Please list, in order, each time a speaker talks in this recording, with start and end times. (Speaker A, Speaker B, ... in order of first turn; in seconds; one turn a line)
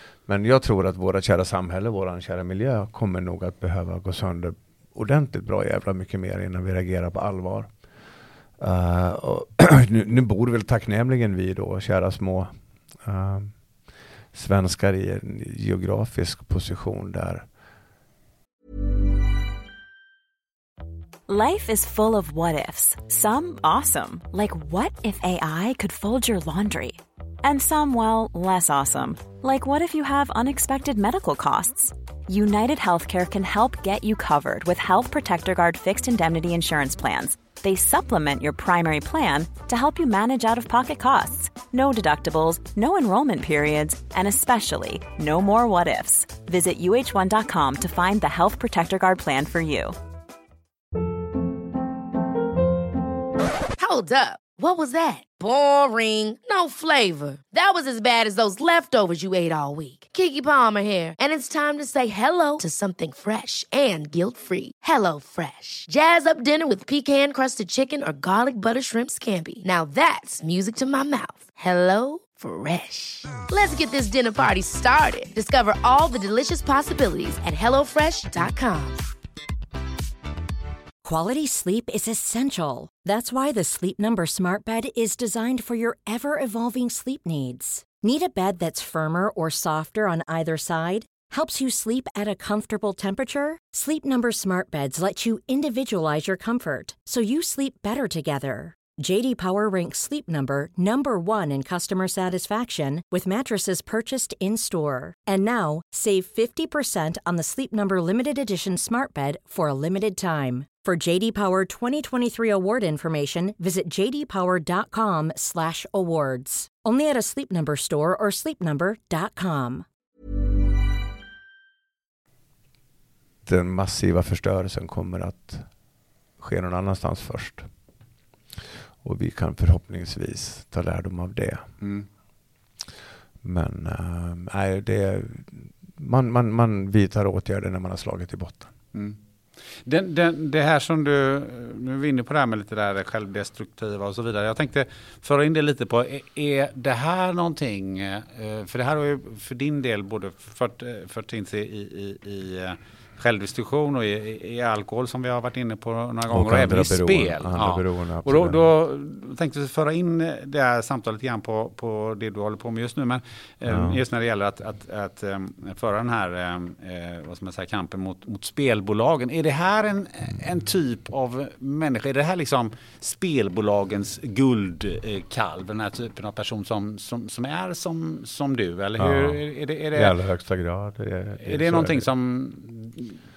Speaker A: 0.3-7.7
Speaker A: 8.6-12.5
Speaker A: 13.0-13.5
Speaker A: 14.3-17.4
Speaker B: 21.3-50.0
Speaker C: 53.8-79.0
Speaker D: 81.0-119.8
Speaker A: 123.5-125.7
Speaker A: 126.4-127.7
Speaker A: 129.0-131.7
Speaker E: 131.8-132.1
Speaker A: 133.4-138.7
Speaker E: 139.8-180.2
Speaker A: 156.3-158.6
Speaker A: 163.7-164.0
Speaker A: 179.0-179.4
Speaker A: 179.9-182.1
Speaker E: 181.4-183.2